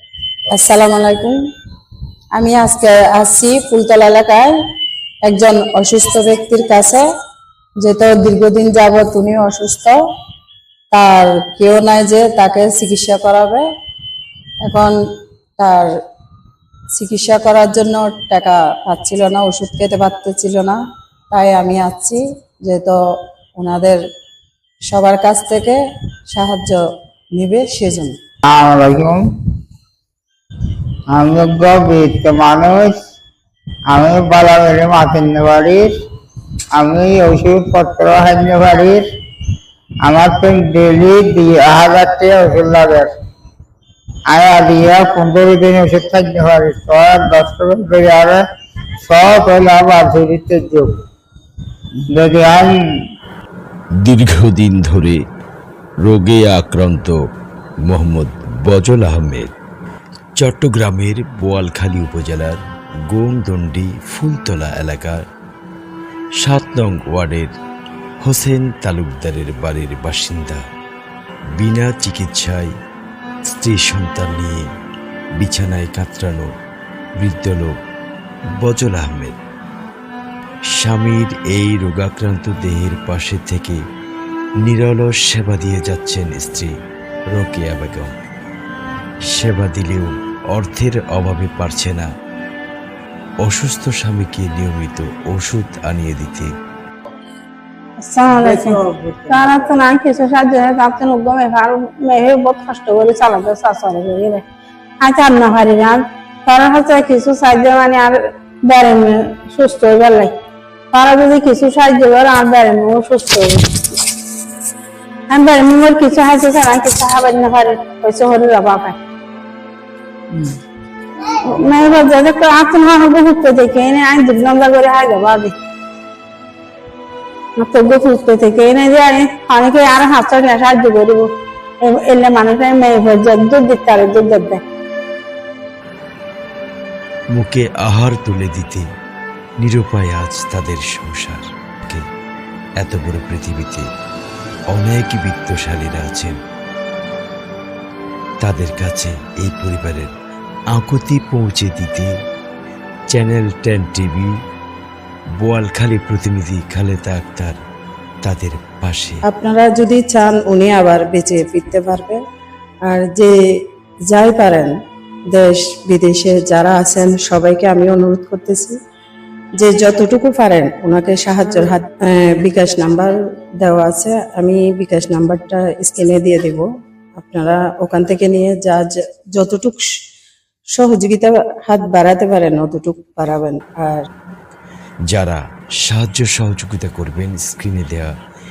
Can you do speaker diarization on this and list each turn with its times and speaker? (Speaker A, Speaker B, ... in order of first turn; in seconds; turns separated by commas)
Speaker A: 0.5-1.4, Speaker A: 2.3-4.5, Speaker A: 5.2-7.0, Speaker A: 7.8-10.0, Speaker A: 10.9-13.7, Speaker A: 14.6-14.9, Speaker A: 15.6-16.0, Speaker A: 16.9-20.8, Speaker A: 21.3-23.0, Speaker A: 23.6-24.0, Speaker A: 24.9-26.8, Speaker A: 27.3-28.2, Speaker B: 28.4-29.2, Speaker B: 31.1-33.0, Speaker B: 33.9-35.9, Speaker B: 36.7-39.0, Speaker B: 40.0-43.1, Speaker B: 44.3-48.4, Speaker B: 49.0-50.9, Speaker B: 52.1-52.8, Speaker C: 54.0-55.2, Speaker C: 56.0-57.2, Speaker C: 57.9-59.5, Speaker C: 60.4-62.6, Speaker C: 63.1-65.2, Speaker C: 66.4-67.5, Speaker C: 68.2-70.6, Speaker C: 71.6-72.7, Speaker C: 73.5-74.7, Speaker C: 75.4-76.5, Speaker C: 77.2-77.8, Speaker C: 78.6-79.4, Speaker C: 80.7-83.8, Speaker C: 84.6-86.7, Speaker C: 87.3-88.1, Speaker C: 89.3-92.1, Speaker C: 93.4-96.5, Speaker D: 98.0-104.4, Speaker B: 98.3-99.8, Speaker D: 105.0-110.3, Speaker D: 110.9-113.9, Speaker D: 115.3-119.0, Speaker D: 121.3-125.5, Speaker D: 127.6-131.3, Speaker D: 131.8-134.6, Speaker C: 137.3-138.9, Speaker C: 139.6-142.0, Speaker C: 142.8-143.9, Speaker C: 144.7-146.4, Speaker C: 148.4-150.1, Speaker C: 150.7-152.1, Speaker C: 153.1-154.3, Speaker C: 155.4-157.6, Speaker C: 158.2-159.2, Speaker A: 159.3-162.2, Speaker A: 162.8-163.3, Speaker A: 164.1-164.7, Speaker A: 165.3-168.8, Speaker A: 169.6-176.7, Speaker A: 177.2-179.8, Speaker A: 180.8-184.0, Speaker C: 185.1-188.1